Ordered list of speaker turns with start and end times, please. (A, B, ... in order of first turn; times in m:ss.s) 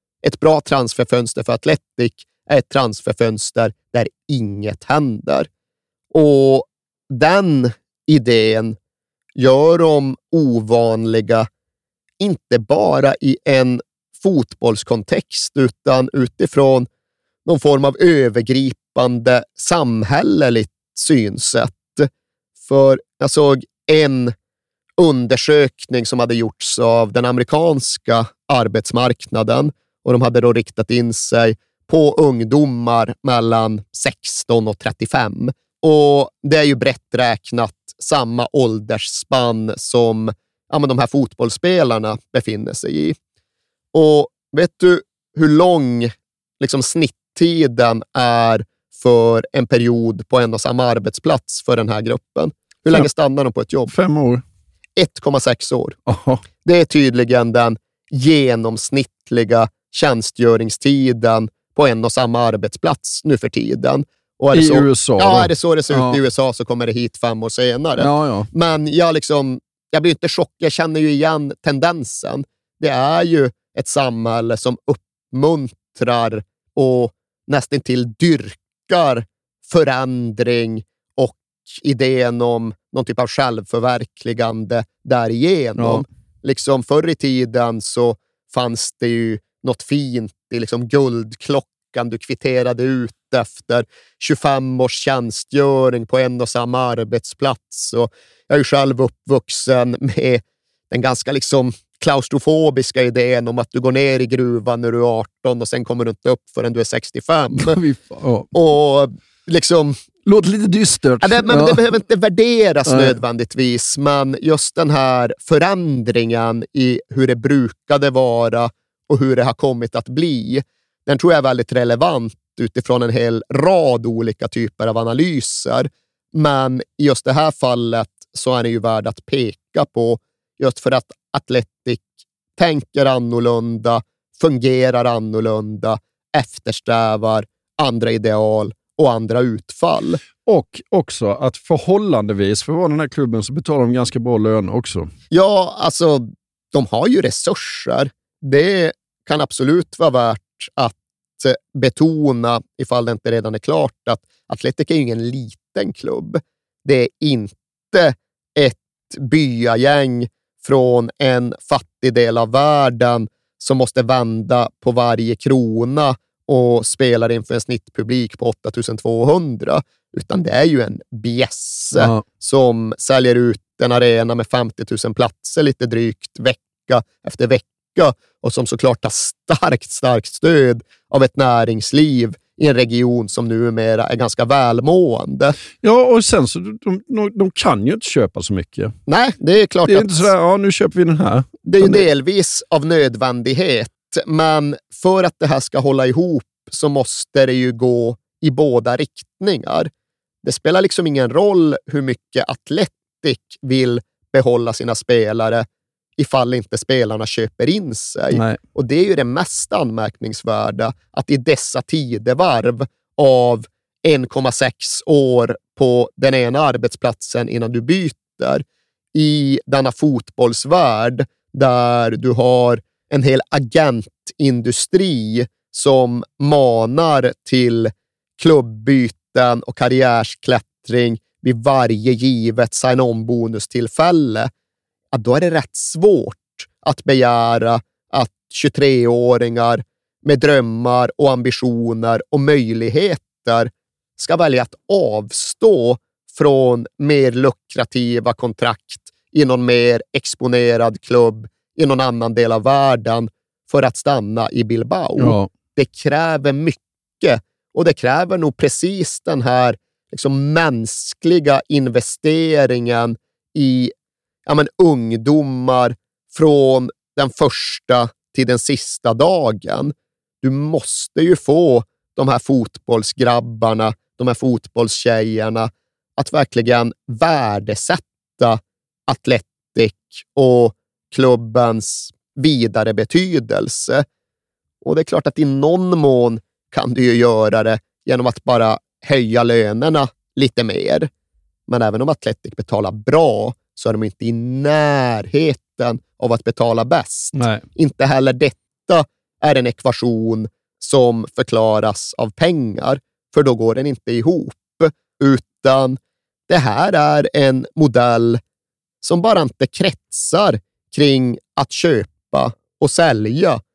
0:00.2-0:05.5 A
0:06.1-0:08.8 A
0:09.4-0:11.5 A
0:12.2-0:16.9 A
0:17.4-0:22.1 A
0:22.6-0:24.3 A
0:25.0-0:43.2 A
0:43.9-0:53.9 A
0:53.9-0:54.4 B
0:55.0-0:56.0 A
0:56.0-0:56.4 B
0:56.6-1:47.8 A
1:04.5-1:06.2 B
1:08.0-1:08.5 B
1:25.8-1:26.0 B
1:47.5-1:48.5 B
1:48.5-1:50.0 A
1:50.2-1:51.8 B
1:51.2-2:20.2 A
1:52.9-1:53.2 B
2:20.4-2:25.1 B
2:25.3-3:05.6 A
2:51.9-2:52.2 B
3:05.8-3:09.0 B
3:09.1-3:10.3 A
3:09.8-3:12.0 B
3:11.6-3:19.9 A
3:20.4-3:25.6 A
3:26.2-3:54.5 A
3:28.3-3:28.6 B
3:55.1-4:23.9 A
4:15.2-4:15.5 B
4:24.5-4:44.0 A
4:44.8-4:51.1 A
4:51.7-5:08.4 A
4:57.3-4:57.6 B
5:09.0-5:13.6 A